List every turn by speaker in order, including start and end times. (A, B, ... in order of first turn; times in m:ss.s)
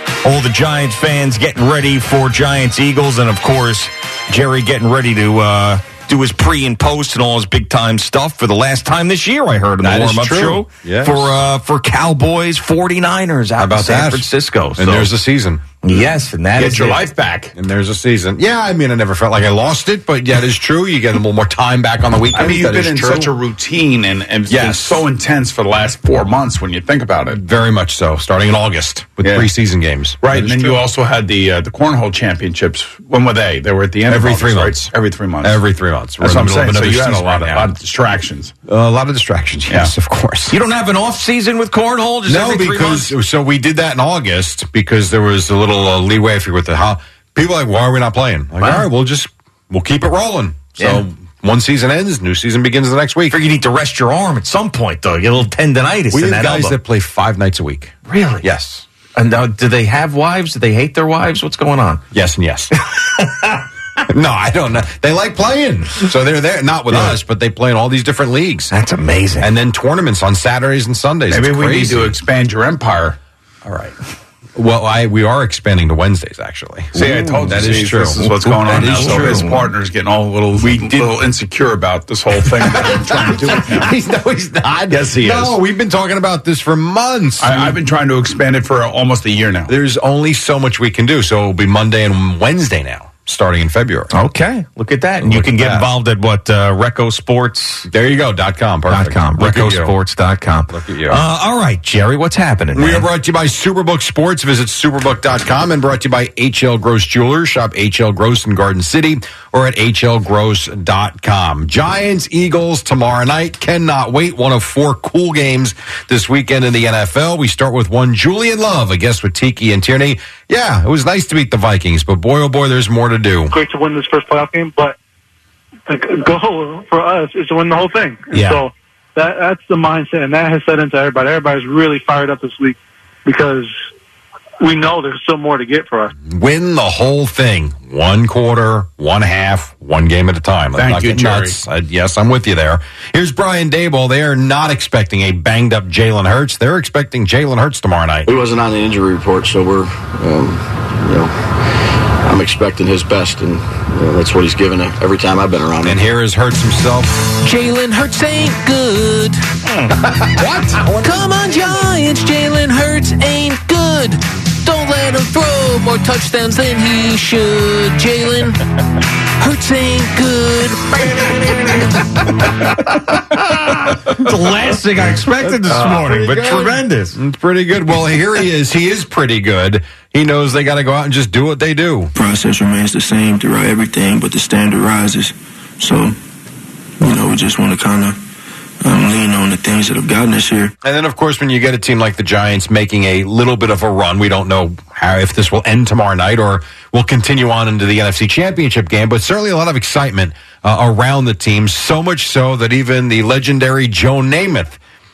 0:00.2-0:15.1 A
0:09.8-0:11.4 B
0:13.6-0:15.6 B
0:15.8-0:17.0 A
0:16.6-0:17.5 C
0:17.6-0:23.3 B
0:22.3-0:27.4 C
0:24.5-0:25.0 B
0:27.3-0:30.8 B
0:29.2-0:29.5 C
0:30.2-0:35.6 C
0:34.1-0:37.7 B
0:36.2-0:38.5 C
0:38.7-0:40.6 B
0:40.5-0:43.1 A
0:42.3-0:53.4 B
0:50.8-0:51.0 A
0:53.3-0:56.8 A
0:56.1-0:58.8 B
0:58.1-0:58.4 A
0:59.2-1:02.0 A
1:02.1-1:02.7 B
1:03.0-1:03.6 A
1:04.1-1:08.7 B
1:08.7-1:09.5 A
1:09.4-1:12.2 B
1:11.3-1:13.2 C
1:13.6-1:13.9 B
1:14.6-1:19.6 B
1:16.9-1:24.0 C
1:18.7-1:19.6 A
1:20.6-1:21.2 B
1:22.6-1:27.8 B
1:24.9-1:25.6 C
1:27.4-1:29.7 C
1:29.7-1:34.1 B
1:34.1-1:37.9 A
1:35.2-1:35.9 B
1:37.9-1:39.9 B
1:38.9-1:43.1 A
1:40.7-1:41.2 B
1:42.7-2:03.5 B
2:03.5-2:05.0 D
2:05.9-2:13.7 D
2:14.6-2:16.1 D
2:16.3-2:28.3 B
2:20.8-2:21.6 C
2:28.3-2:31.3 E
2:32.2-2:36.0 E
2:35.8-2:37.3 B
2:37.4-2:39.4 F
2:40.4-2:40.7 C
2:41.0-2:48.6 F
2:49.4-2:51.1 F
2:51.6-2:52.0 F
2:52.7-2:57.2 A
2:55.4-3:02.1 B
3:02.2-3:06.2 G
3:07.0-3:08.2 G
3:08.8-3:10.7 G
3:10.8-3:24.8 B